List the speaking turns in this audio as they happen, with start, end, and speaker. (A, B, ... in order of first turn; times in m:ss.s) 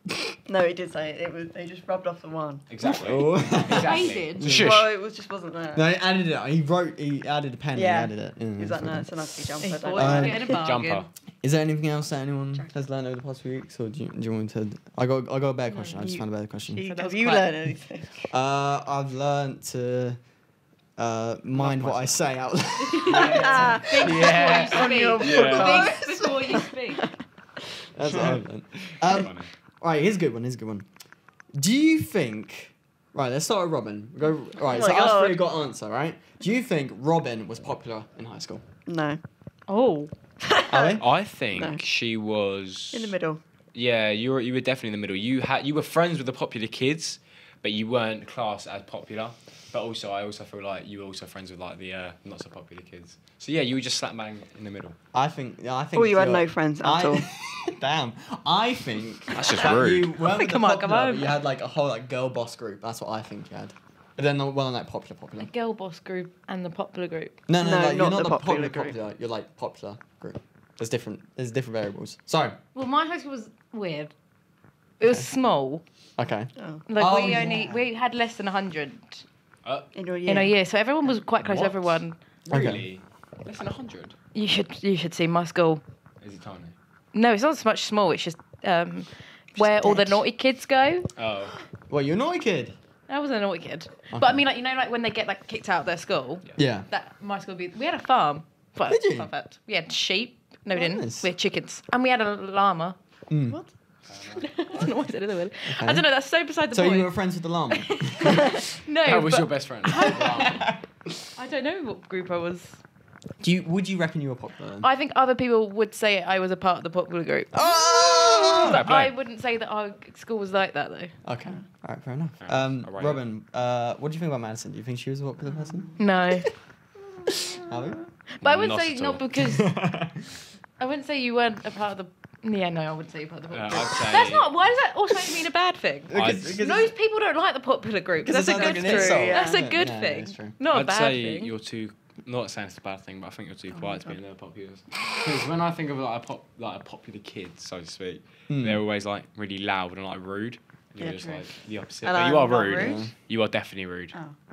0:00.5-0:02.6 A
0:02.7-0:04.9 B
0:02.8-0:04.8 C
0:03.7-0:04.4 D
0:04.5-0:05.9 A
0:05.7-0:09.1 C
0:07.7-0:10.6 A
0:09.6-0:11.1 D
0:09.9-0:10.5 C
0:10.5-0:11.1 B
0:11.4-0:16.9 C
0:15.7-0:16.1 D
0:16.0-0:18.3 A
0:16.9-0:17.6 D
0:18.3-0:20.2 C
0:21.0-0:24.0 C
0:21.6-0:22.3 B
0:23.0-0:27.1 A
0:23.0-0:27.1 D
0:23.1-0:26.0 B
0:28.0-0:30.9 C
0:28.0-0:29.5 B
0:31.6-0:38.6 C
0:34.6-0:35.5 A
0:38.9-0:39.2 A
0:39.7-0:40.1 D
0:40.4-0:41.0 A
0:40.7-0:41.0 C
0:41.0-0:43.2 B
0:41.6-0:41.8 A
0:42.9-0:43.4 A
0:43.7-0:55.0 B
0:55.1-1:05.5 C
0:56.0-0:57.3 A
0:59.3-1:00.1 B
1:00.2-1:01.3 D
1:05.4-1:07.4 D
1:07.5-1:12.6 C
1:07.6-1:09.0 A
1:12.8-1:14.1 D
1:15.0-1:15.8 D
1:15.0-1:15.3 C
1:16.2-1:17.8 C
1:16.6-1:16.8 A
1:16.9-1:19.2 D
1:19.9-1:20.6 A
1:20.3-1:22.2 D
1:21.4-1:24.2 B
1:22.5-1:22.9 C
1:24.3-1:25.8 D
1:26.2-1:26.7 B
1:27.1-1:31.1 D
1:29.6-1:30.2 C
1:31.2-1:31.6 B
1:31.9-1:32.8 C
1:33.1-1:43.0 D
1:34.1-1:34.4 C
1:36.6-1:36.9 C
1:38.9-1:39.3 C
1:40.7-1:41.3 C
1:43.3-1:43.6 C
1:44.1-1:44.4 B
1:44.4-1:47.1 D
1:45.7-1:46.1 C
1:46.7-1:48.6 C
1:47.7-1:50.6 D
1:49.0-1:50.7 B
1:50.1-1:50.8 C
1:51.4-1:52.8 D
1:53.4-1:54.9 C
1:54.8-2:01.1 D
1:57.5-1:58.8 C
1:57.9-1:58.6 A
1:58.6-1:59.1 B
2:01.2-2:05.9 C
2:02.4-2:03.2 B
2:05.5-2:06.0 A
2:06.0-2:06.5 D
2:07.3-2:08.0 C
2:08.4-2:09.7 D
2:08.4-2:09.2 B
2:09.3-2:10.4 C
2:10.8-2:21.5 D
2:13.5-2:14.5 B
2:16.1-2:17.0 C
2:16.1-2:16.6 B
2:18.2-2:20.6 C
2:18.4-2:19.6 A
2:20.7-2:34.2 B
2:23.7-2:24.2 A
2:28.5-2:28.8 C
2:31.0-2:31.5 A
2:32.0-2:33.1 A
2:32.8-2:33.1 C